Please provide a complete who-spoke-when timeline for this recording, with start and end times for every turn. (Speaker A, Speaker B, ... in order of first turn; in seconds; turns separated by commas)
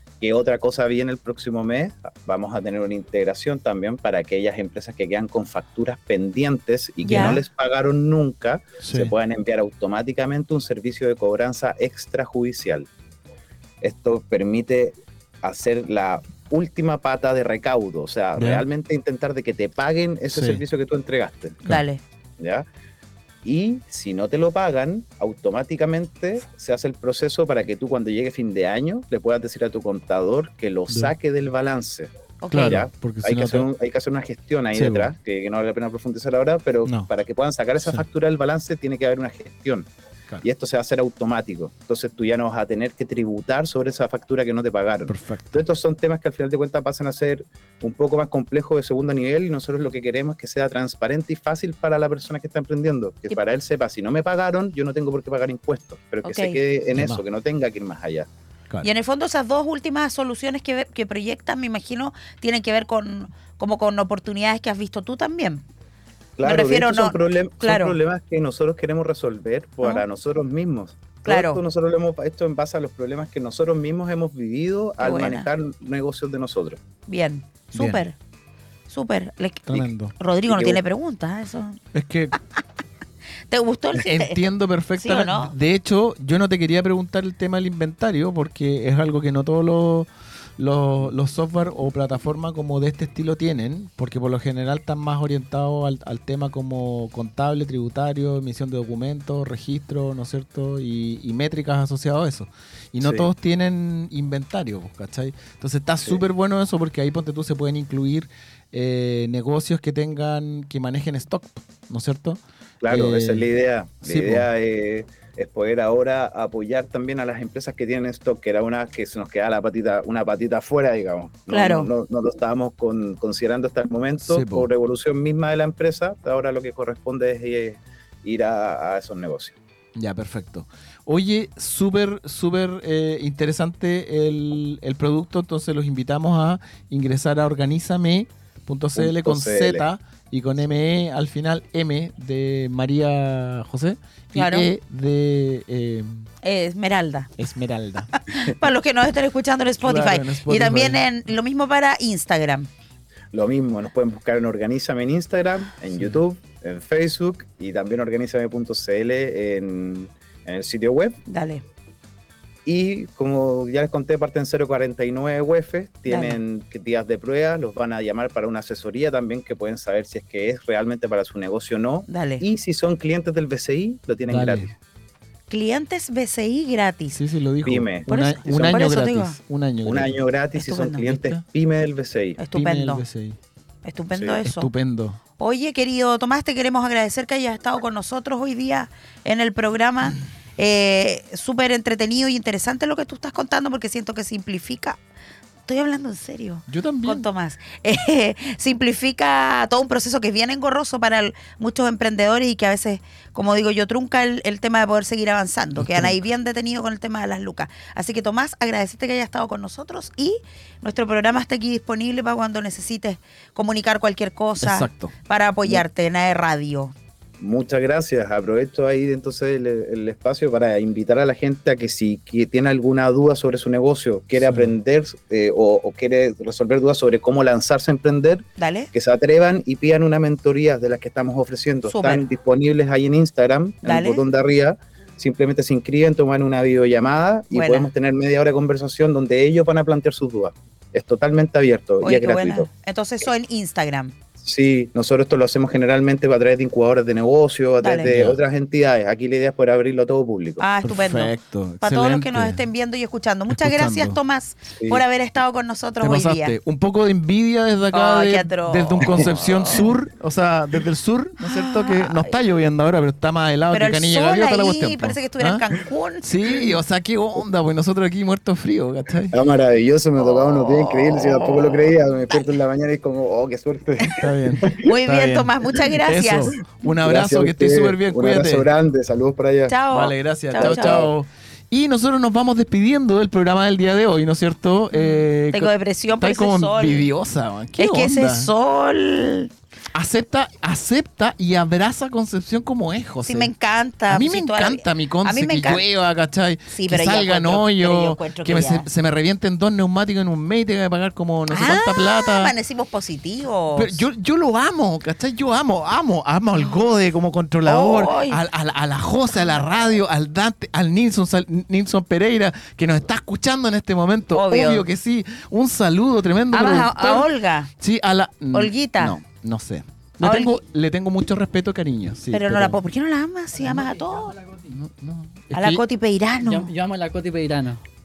Speaker A: 0.2-12.9, Speaker B: 7.0-7.4, Speaker C: 7.1-7.4, Speaker C: 8.8-9.1, Speaker A: 13.8-21.6, Speaker C: 18.4-18.6, Speaker C: 20.3-20.6, Speaker B: 21.7-22.0, Speaker A: 22.4-22.7, Speaker A: 23.4-39.9, Speaker C: 30.9-31.1, Speaker B: 32.4-32.8, Speaker C: 32.5-33.7, Speaker C: 34.7-35.1, Speaker A: 40.4-58.3, Speaker C: 45.1-45.6, Speaker B: 56.2-56.6, Speaker C: 56.9-57.2, Speaker B: 58.8-65.6, Speaker A: 66.4-76.8, Speaker B: 66.4-68.0, Speaker B: 71.2-71.6, Speaker B: 75.0-75.5, Speaker B: 77.1-78.2, Speaker C: 77.8-78.0, Speaker B: 78.9-81.8, Speaker C: 79.7-80.1, Speaker A: 80.5-80.8, Speaker C: 81.9-82.4, Speaker B: 83.5-84.4, Speaker C: 84.0-113.5, Speaker B: 85.0-85.5, Speaker A: 103.0-103.3, Speaker A: 112.8-129.6, Speaker C: 114.0-114.5, Speaker B: 121.5-121.9, Speaker C: 124.2-124.7, Speaker C: 130.0-146.3, Speaker A: 139.0-139.9, Speaker B: 144.3-144.7, Speaker B: 146.4-147.3, Speaker C: 147.4-148.2, Speaker B: 148.2-152.7, Speaker C: 149.8-151.0, Speaker A: 153.3-161.2, Speaker C: 155.9-156.2, Speaker B: 161.3-161.6, Speaker A: 162.7-174.8, Speaker B: 166.1-166.4, Speaker B: 172.1-172.4, Speaker C: 174.3-174.7, Speaker B: 175.5-177.2, Speaker C: 177.1-180.2, Speaker A: 177.6-178.8, Speaker B: 178.1-179.4, Speaker A: 179.8-182.4, Speaker B: 180.6-181.1, Speaker C: 181.0-181.4, Speaker B: 182.4-183.0, Speaker C: 182.5-183.4, Speaker B: 183.8-184.7, Speaker C: 184.4-185.2, Speaker B: 185.4-195.0, Speaker B: 195.7-216.9, Speaker C: 196.7-197.3, Speaker C: 205.8-206.1, Speaker C: 214.6-215.1, Speaker A: 217.4-242.7, Speaker C: 224.4-224.7, Speaker B: 228.6-228.9, Speaker B: 231.9-232.2, Speaker B: 233.8-234.2, Speaker B: 237.5-237.9, Speaker B: 242.0-244.1, Speaker A: 244.4-250.6, Speaker B: 247.8-248.1, Speaker C: 248.1-248.4, Speaker B: 250.6-256.6, Speaker C: 250.8-252.7, Speaker C: 253.5-254.2, Speaker C: 256.0-265.6, Speaker B: 257.9-259.9, Speaker B: 261.4-262.4, Speaker B: 263.7-266.7, Speaker C: 266.2-269.4, Speaker A: 269.3-274.9, Speaker B: 270.2-272.6, Speaker C: 274.1-278.7, Speaker B: 274.8-276.6, Speaker A: 276.9-279.8, Speaker B: 279.7-281.1, Speaker C: 279.9-288.5, Speaker A: 280.6-281.1, Speaker B: 284.9-287.1, Speaker B: 287.8-289.5, Speaker C: 289.9-293.5, Speaker B: 293.2-295.9, Speaker C: 294.1-302.5, Speaker B: 296.7-298.9, Speaker B: 301.5-304.0, Speaker C: 303.7-317.3, Speaker B: 307.6-308.4, Speaker B: 314.3-314.9, Speaker B: 316.5-317.7, Speaker C: 317.8-322.8, Speaker B: 318.5-319.2, Speaker B: 320.2-320.6, Speaker B: 322.3-324.4, Speaker D: 323.6-324.7, Speaker C: 324.7-325.8, Speaker B: 325.5-326.7, Speaker D: 326.4-327.8